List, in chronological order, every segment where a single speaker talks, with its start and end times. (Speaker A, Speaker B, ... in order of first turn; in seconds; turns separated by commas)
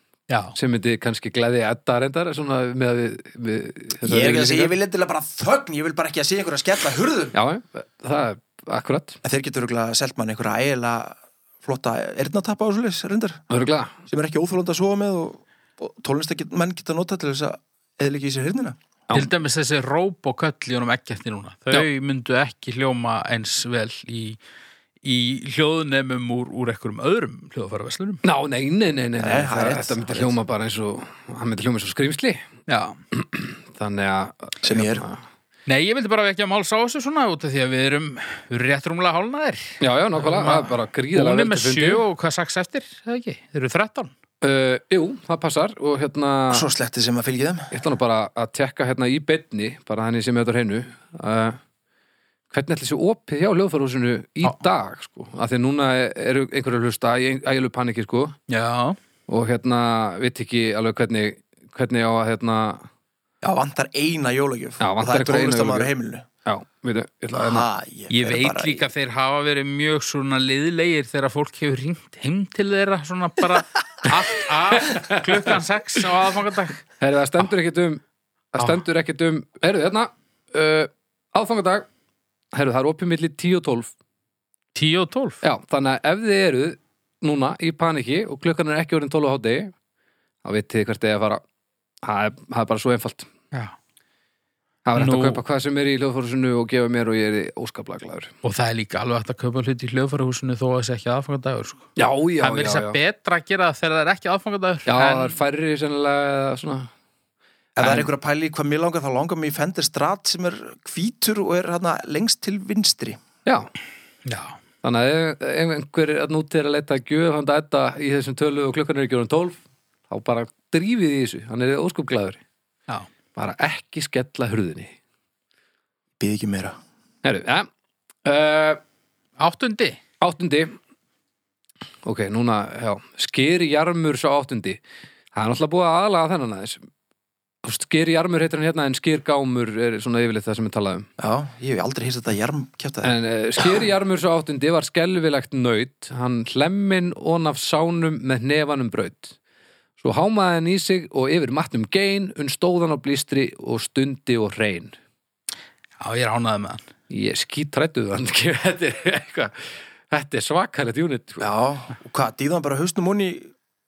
Speaker A: 0.3-0.6, Speaker B: 0.6-4.7, Speaker C: 4.0-7.3, Speaker B: 7.3-9.2, Speaker C: 9.2-13.4, Speaker B: 13.5-13.9, Speaker C: 14.1-18.8, Speaker A: 19.1-24.4, Speaker A: 25.0-28.2, Speaker B: 28.2-32.5, Speaker C: 29.2-30.4, Speaker A: 32.7-33.0, Speaker B: 33.1-35.2, Speaker C: 34.6-35.0, Speaker A: 35.7-44.1, Speaker B: 39.8-42.0, Speaker B: 44.4-46.6, Speaker C: 46.5-47.7, Speaker B: 47.7-51.6, Speaker B: 52.5-58.4, Speaker A: 58.5-59.0, Speaker B: 59.3-62.9, Speaker C: 63.4-66.2, Speaker B: 64.8-65.9, Speaker B: 66.5-67.7, Speaker C: 67.3-68.8, Speaker A: 68.1-76.8, Speaker B: 74.7-75.6, Speaker B: 77.0-78.0, Speaker B: 78.5-81.9, Speaker B: 82.5-83.9, Speaker A: 84.8-85.4, Speaker B: 85.4-89.7, Speaker B: 90.4-91.4, Speaker B: 92.0-93.3, Speaker B: 94.9-98.3, Speaker A: 95.0-95.4, Speaker A: 98.4-101.9, Speaker B: 102.0-103.0, Speaker A: 102.4-105.4, Speaker B: 104.9-106.9, Speaker C: 107.8-113.2, Speaker B: 107.8-108.1, Speaker B: 113.5-113.7, Speaker A: 114.3-114.6, Speaker B: 114.8-122.4, Speaker B: 123.3-125.0, Speaker C: 126.2-126.8, Speaker B: 127.2-127.7, Speaker B: 128.2-128.8, Speaker A: 129.4-130.0, Speaker B: 130.2-130.8, Speaker B: 132.0-134.8, Speaker B: 135.3-136.8, Speaker B: 137.6-141.1, Speaker C: 141.2-143.1, Speaker B: 143.0-149.4, Speaker B: 150.0-154.9, Speaker A: 156.0-156.8, Speaker B: 157.1-161.4, Speaker C: 161.4-163.5